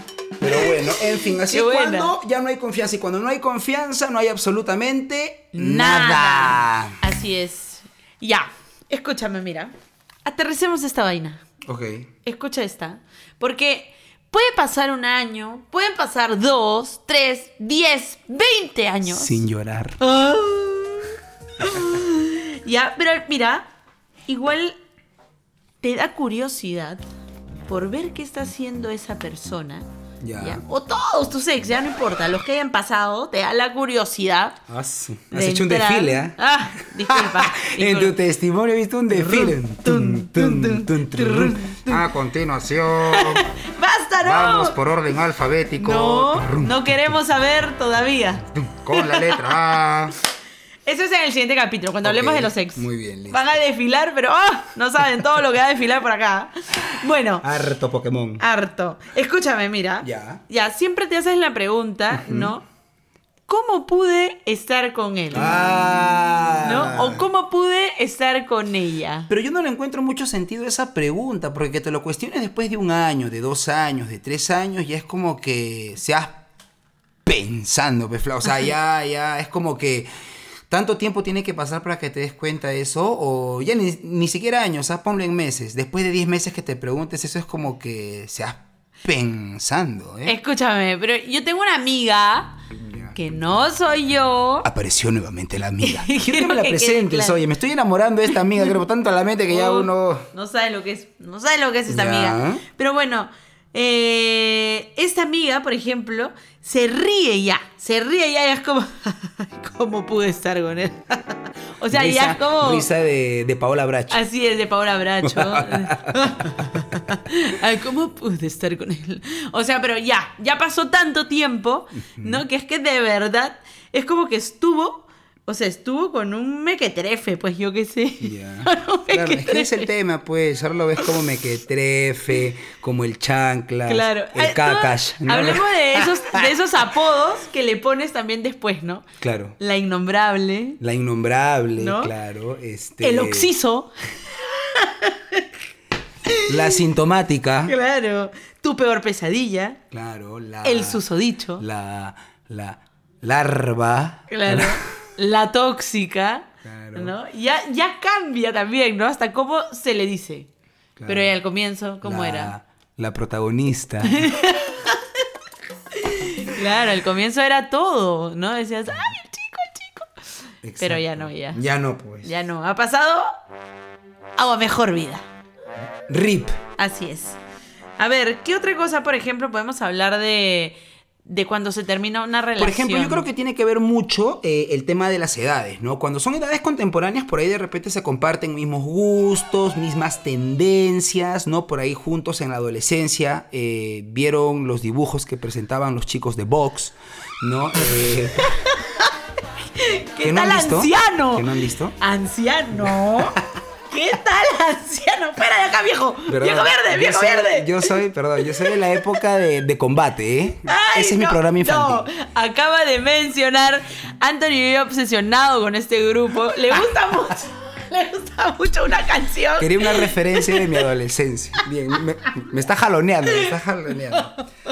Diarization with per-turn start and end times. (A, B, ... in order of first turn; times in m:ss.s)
0:00.4-0:07.0 A
0:00.5-0:02.2 B
0:05.5-0:09.7 B
0:10.2-0:11.4 B
0:11.6-0:12.1 A
0:12.2-0:19.4 B
0:19.1-0:20.0 A
0:20.0-0:23.7 B
0:24.3-0:24.8 B
0:25.8-0:27.0 B
0:27.7-0:29.9 B
0:30.2-0:30.6 A
0:30.4-0:34.6 B
0:34.7-0:43.5 A
0:35.3-0:38.2 B
0:39.1-0:42.1 B
0:43.1-0:44.8 B
0:44.2-0:47.1 A
0:45.8-0:49.6 B
0:48.5-0:50.2 A
0:50.8-0:57.4 B
0:52.0-0:53.5 A
0:57.4-0:58.4 A
0:58.4-1:02.6 B
1:00.0-1:00.4 A
1:02.1-1:02.5 A
1:03.5-1:05.7 B
1:05.3-1:07.2 A
1:06.6-1:09.3 B
1:09.3-1:16.4 A
1:17.2-1:20.1 A
1:20.7-1:30.4 A
1:30.3-1:32.6 B
1:32.7-1:33.2 A
1:33.2-1:34.7 B
1:34.6-1:40.3 A
1:35.8-1:37.4 B
1:39.5-1:52.9 B
1:41.9-1:42.6 A
1:51.9-1:54.2 A
1:54.1-2:09.9 B
1:55.2-1:57.0 A
2:02.0-2:02.4 A
2:08.2-2:16.5 A
2:13.9-2:19.0 B
2:19.2-2:19.6 A
2:19.6-2:20.8 B
2:20.8-2:23.5 A
2:21.8-2:22.1 B
2:23.0-2:25.5 B
2:26.3-2:26.8 B
2:26.4-2:27.8 A
2:27.6-2:29.8 B
2:29.9-2:31.0 A
2:30.6-2:31.6 B
2:31.6-2:34.8 A
2:34.3-2:40.5 B
2:36.6-2:37.2 A
2:41.0-2:41.3 A
2:41.1-2:42.5 B
2:42.0-2:44.3 A
2:44.1-2:45.3 B
2:45.9-2:50.2 B
2:50.6-2:52.3 A
2:50.8-2:51.6 B
2:52.2-2:53.3 B
2:54.4-2:55.2 B
2:56.1-2:56.6 A
2:56.8-2:57.4 B
2:58.0-3:03.3 B
3:02.6-3:18.6 A
3:18.4-3:19.1 B
3:19.8-3:21.5 B
3:20.2-3:22.0 A
3:22.0-3:23.4 B
3:22.8-3:23.4 A
3:23.9-3:29.0 B
3:26.3-3:32.1 A
3:30.7-3:40.9 B
3:39.6-3:44.4 A